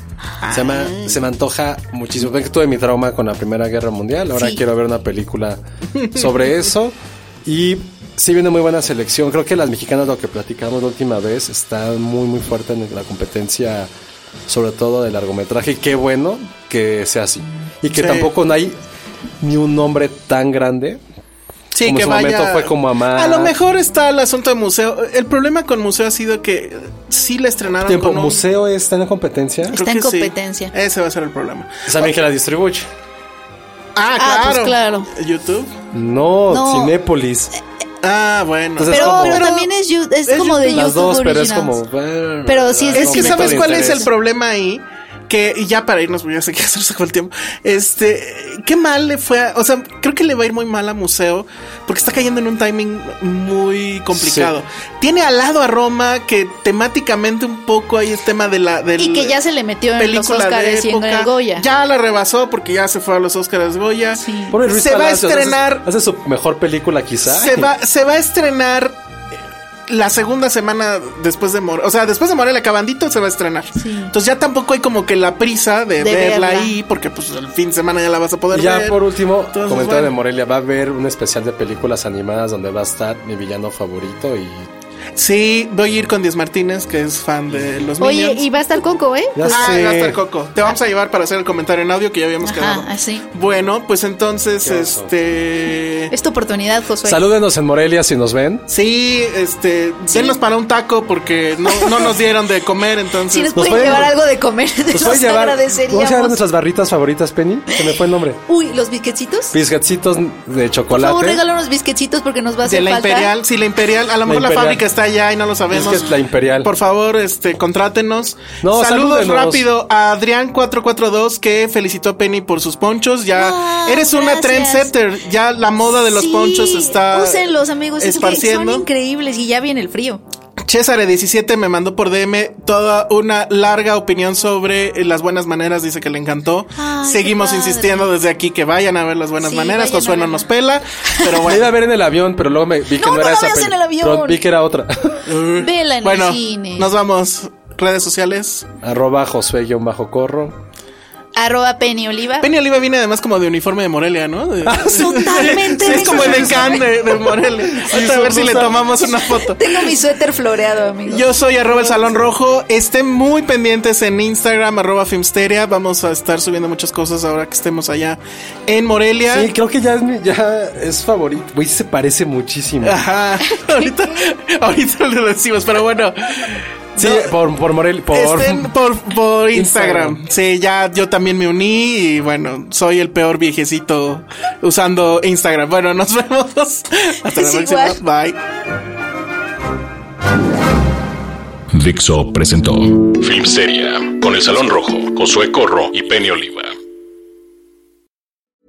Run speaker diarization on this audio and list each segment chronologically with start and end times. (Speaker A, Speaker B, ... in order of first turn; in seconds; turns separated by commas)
Speaker A: 0.4-1.2, Speaker B: 0.5-13.9, Speaker C: 4.3-4.6, Speaker A: 6.0-6.3, Speaker B: 14.5-18.8, Speaker A: 17.9-18.3, Speaker B: 19.4-21.0, Speaker A: 21.7-28.4, Speaker B: 21.8-23.5, Speaker B: 27.8-29.8, Speaker C: 29.7-30.7, Speaker A: 29.7-32.1, Speaker B: 31.9-32.9, Speaker A: 34.0-35.7, Speaker C: 34.2-35.1, Speaker B: 35.9-37.5, Speaker C: 36.5-36.9, Speaker A: 38.0-39.7, Speaker B: 38.8-39.5, Speaker C: 38.9-41.8, Speaker A: 40.3-40.9, Speaker B: 40.7-44.1, Speaker C: 42.5-44.1, Speaker A: 43.0-59.4, Speaker B: 54.1-54.5, Speaker C: 59.0-61.6, Speaker A: 60.0-65.9, Speaker C: 64.2-64.5, Speaker B: 64.5-67.7, Speaker A: 67.2-69.0, Speaker A: 69.9-80.1, Speaker C: 73.8-74.1, Speaker C: 76.0-76.7, Speaker B: 78.5-84.7, Speaker A: 85.2-88.4, Speaker C: 88.0-89.7, Speaker B: 89.3-90.2, Speaker A: 89.5-96.1, Speaker C: 92.4-93.2, Speaker B: 94.6-95.1, Speaker C: 96.1-97.2, Speaker B: 97.0-98.7, Speaker A: 98.7-104.1, Speaker C: 100.1-100.4, Speaker C: 101.7-102.2, Speaker C: 103.3-106.4, Speaker B: 103.5-104.1, Speaker B: 104.9-108.4, Speaker C: 108.5-109.6, Speaker B: 109.5-111.4, Speaker C: 110.9-113.3, Speaker A: 112.6-116.1, Speaker B: 114.2-114.8, Speaker B: 115.7-116.7, Speaker A: 116.6-128.8, Speaker B: 118.6-119.7, Speaker C: 123.3-124.9, Speaker C: 126.0-130.2, Speaker A: 130.7-141.8, Speaker C: 136.7-138.1, Speaker C: 139.4-140.5, Speaker C: 141.1-141.4, Speaker B: 141.4-145.3, Speaker C: 142.9-144.4, Speaker A: 145.3-148.7, Speaker C: 145.5-146.9, Speaker B: 148.8-150.6, Speaker C: 151.3-152.5, Speaker A: 152.4-159.9, Speaker B: 154.6-158.8, Speaker C: 154.9-156.9, Speaker C: 159.0-162.1, Speaker A: 161.1-169.5, Speaker B: 169.3-173.0, Speaker A: 172.8-177.3, Speaker C: 173.5-174.2, Speaker B: 176.9-178.7, Speaker A: 178.1-188.4, Speaker B: 179.5-180.2, Speaker C: 187.3-188.0, Speaker D: 191.7-196.8